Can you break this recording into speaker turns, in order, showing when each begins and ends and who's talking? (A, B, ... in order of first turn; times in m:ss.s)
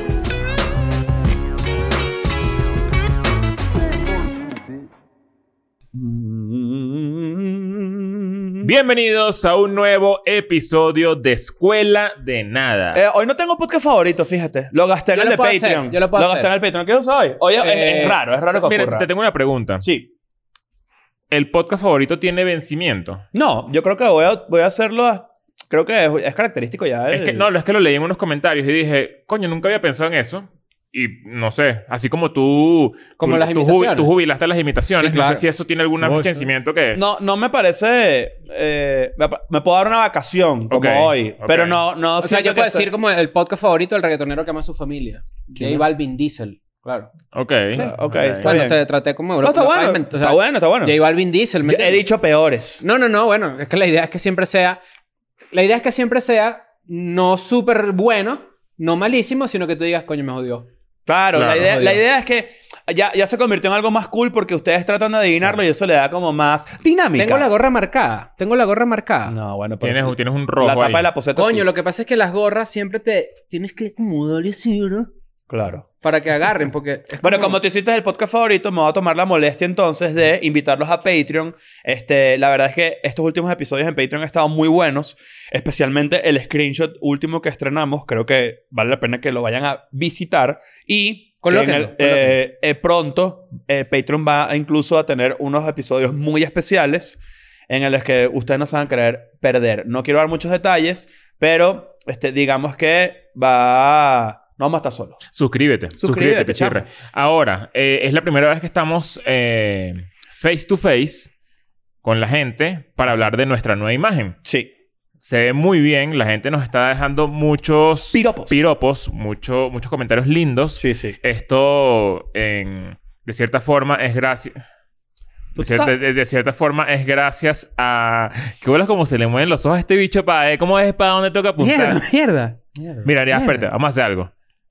0:05.9-0:08.7 A
0:08.6-0:13.0 B
0:12.9-0:19.1 A
0:15.1-0:16.5 C
0:17.6-0:18.2 C
0:18.5-0:19.8 B
0:19.8-0:20.1 A
0:21.3-0:23.2 B
0:23.3-0:27.4 A
0:27.1-0:37.0 B
0:33.2-0:34.1 C
0:35.0-0:35.4 C
0:36.0-0:36.4 C
0:36.9-0:42.9 A
0:40.7-0:41.8 B
0:42.2-0:47.1 C
0:45.5-0:45.8 A
0:47.3-0:48.5 B
0:47.7-0:48.8 A
0:47.7-0:52.0 C
0:49.4-0:51.0 A
0:51.6-0:52.8 A
0:52.8-0:54.8 C
0:55.5-1:00.7 C
1:01.1-1:07.5 A
1:01.3-1:01.9 B
1:07.2-1:09.4 C
1:09.3-1:11.7 A
1:09.8-1:11.1 B
1:11.3-1:15.1 C
1:15.5-1:15.8 A
1:16.0-1:17.6 C
1:17.2-1:45.2 A
1:31.4-1:32.4 C
1:45.3-1:51.3 B
1:46.0-1:46.8 A
1:52.0-1:54.4 B
1:54.4-1:54.7 A
1:55.2-2:04.6 B
1:58.1-1:58.6 A
2:00.8-2:01.2 A
2:05.6-2:05.9 A
2:05.6-2:12.0 B
2:11.6-2:12.6 C
2:12.8-2:13.1 A
2:13.0-2:14.3 B
2:13.3-2:13.6 C